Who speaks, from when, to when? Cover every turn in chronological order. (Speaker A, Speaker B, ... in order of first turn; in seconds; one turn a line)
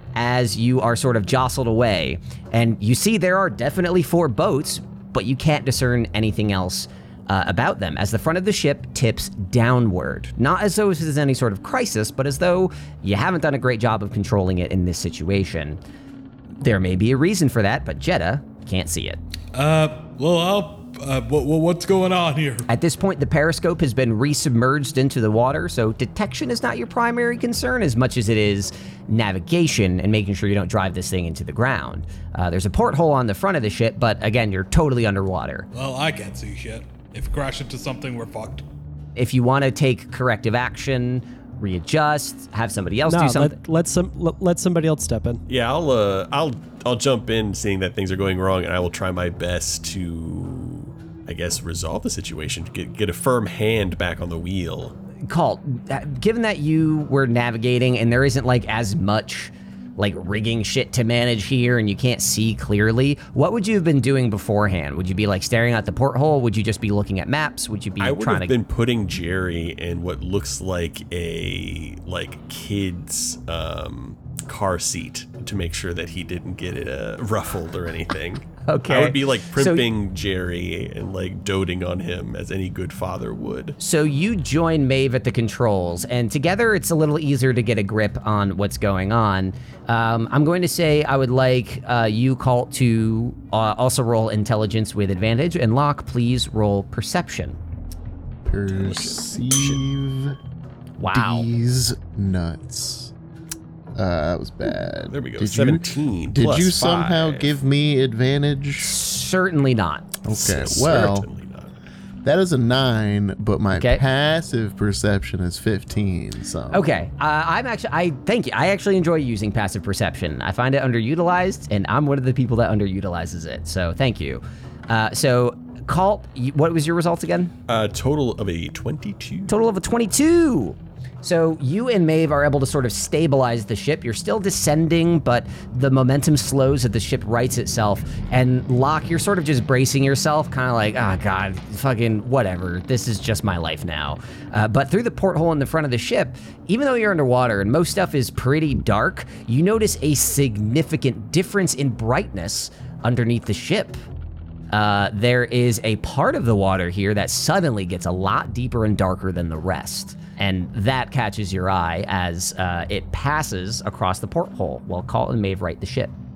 Speaker A: 0.1-15.8
Speaker A: 16.6-19.2
Speaker B: 19.5-22.7
Speaker A: 22.7-35.7
Speaker B: 35.7-38.6
Speaker A: 39.2-43.6
Speaker C: 43.1-45.4
Speaker D: 45.5-55.0
Speaker A: 55.3-68.5
Speaker D: 68.0-83.8
Speaker A: 78.7-79.8
Speaker A: 83.8-97.6
Speaker E: 98.5-100.4
Speaker D: 98.7-99.8
Speaker A: 101.0-101.5
Speaker E: 101.1-103.1
Speaker E: 104.0-108.9
Speaker D: 105.1-107.6
Speaker A: 108.8-110.1
Speaker E: 110.2-111.3
Speaker D: 110.3-111.7
Speaker E: 112.2-116.9
Speaker A: 113.7-114.0
Speaker A: 116.7-127.5
Speaker D: 127.7-129.5
Speaker A: 129.5-154.0
Speaker A: 154.7-166.1